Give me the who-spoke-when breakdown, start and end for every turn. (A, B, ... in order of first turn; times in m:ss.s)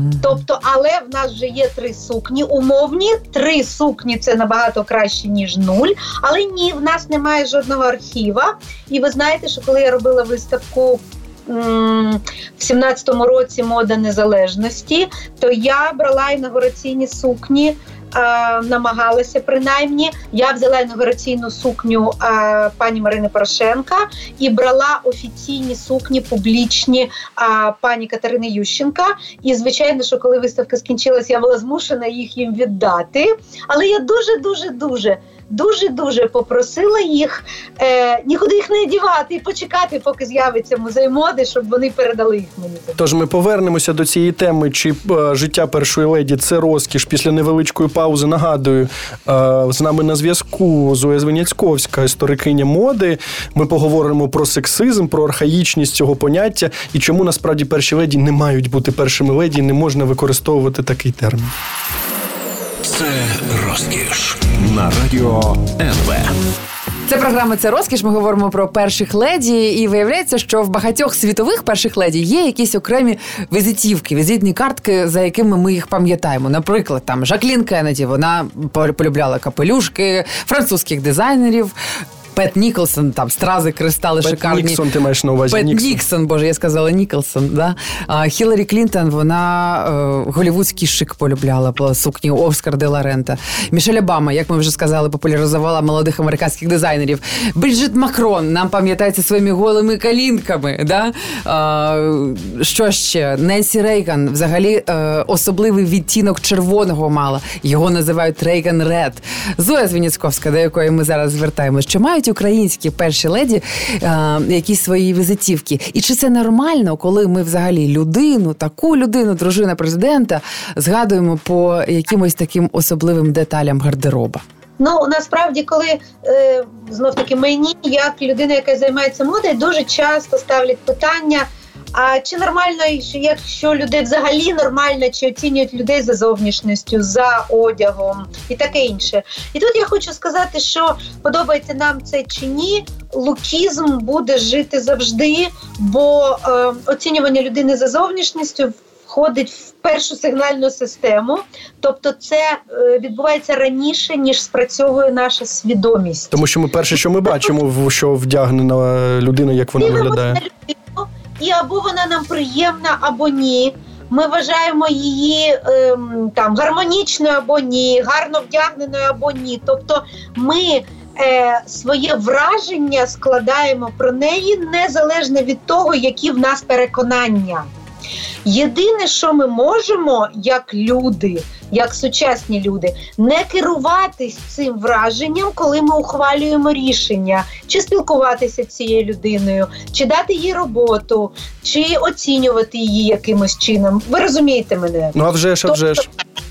0:00.2-0:43.0 A
0:43.0-1:01.5 B
1:02.8-1:06.3 C
1:07.0-1:21.7 D
1:22.3-1:24.8 D
1:24.2-1:26.0 B
1:25.5-2:04.4 D
2:04.8-2:36.4 A
2:36.3-2:40.4 B
2:37.3-2:37.5 A
2:39.8-2:57.7 A
2:58.4-3:15.1 A
3:15.1-3:16.1 B